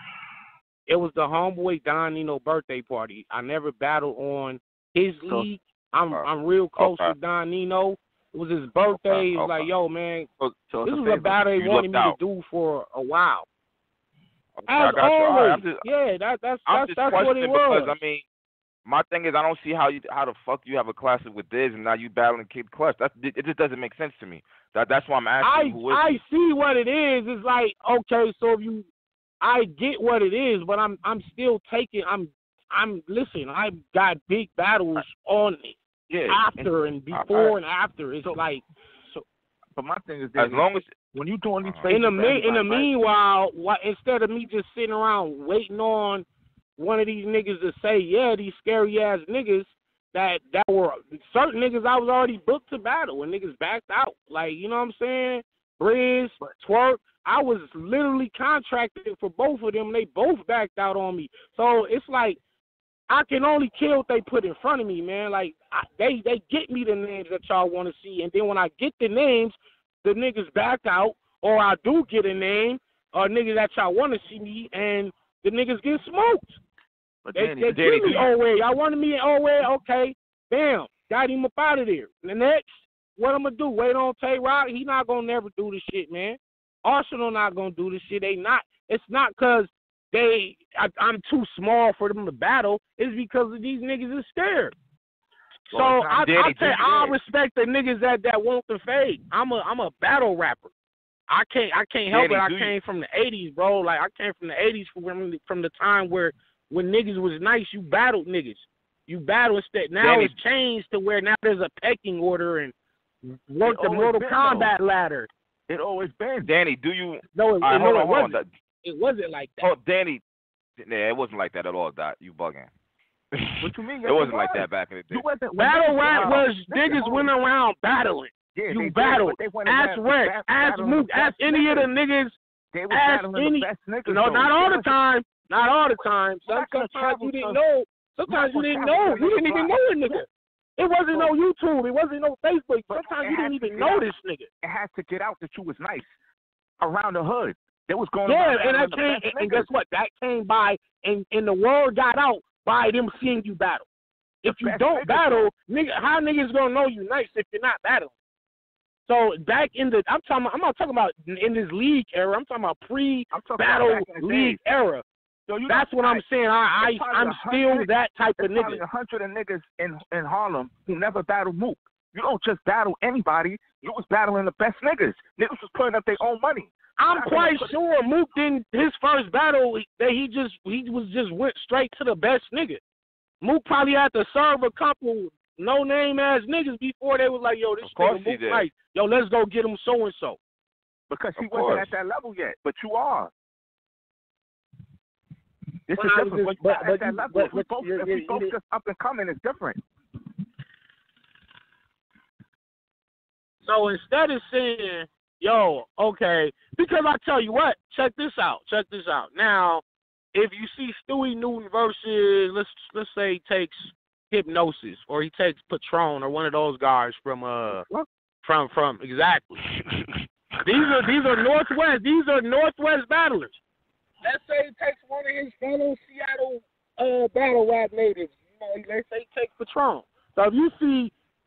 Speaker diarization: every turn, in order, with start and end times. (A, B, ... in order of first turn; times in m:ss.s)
0:00.9-0:10.3 A
0:06.8-0:07.2 B
0:08.9-0:09.7 B
0:10.7-0:11.4 C
0:10.8-0:13.5 A
0:11.5-0:12.2 B
0:14.6-0:15.8 B
0:14.7-0:18.0 A
0:16.7-0:18.3 B
0:18.8-0:26.2 B
0:25.4-0:28.9 A
0:29.4-0:35.8 A
0:36.1-0:36.7 C
0:36.3-0:38.6 A
0:37.1-0:37.5 B
0:39.8-0:42.9 C
0:40.4-0:40.9 B
0:41.6-0:41.9 B
0:41.9-0:46.3 A
0:46.8-1:02.4 A
1:03.1-1:16.6 A
1:17.2-1:18.2 C
1:17.4-1:34.8 A
1:17.7-1:18.3 B
1:35.7-1:36.9 C
1:35.7-1:40.7 A
1:36.2-1:37.2 B
1:41.3-1:55.3 A
1:42.1-1:42.8 B
1:50.0-1:50.4 B
1:53.6-1:54.8 C
1:55.7-1:56.5 C
1:56.4-1:58.5 B
1:57.4-1:59.7 A
1:59.6-2:00.2 B
2:00.8-2:02.7 B
2:03.4-2:05.2 B
2:03.6-2:07.3 C
2:05.6-2:12.4 A
2:06.1-2:06.4 B
2:08.6-2:11.9 C
2:12.7-2:15.0 C
2:12.9-2:24.5 A
2:16.5-2:17.6 C
2:18.3-2:20.2 C
2:22.9-2:24.1 C
2:24.6-2:26.1 C
2:26.8-2:29.7 C
2:28.2-2:33.9 A
2:34.4-2:38.1 A
2:34.4-2:35.5 C
2:39.1-2:45.0 A
2:43.3-2:44.6 C
2:45.5-2:46.2 C
2:45.7-2:48.8 A
2:46.8-2:57.8 C
2:57.0-3:02.8 A
3:03.4-3:10.4 A
3:07.8-3:08.7 B
3:11.1-3:13.3 C
3:11.4-3:11.9 B
3:15.9-3:19.8 C
3:16.0-3:18.6 A
3:23.6-3:37.9 A
3:37.7-3:38.1 C
3:38.4-3:39.7 A
3:40.6-3:43.6 A
3:44.2-3:51.1 A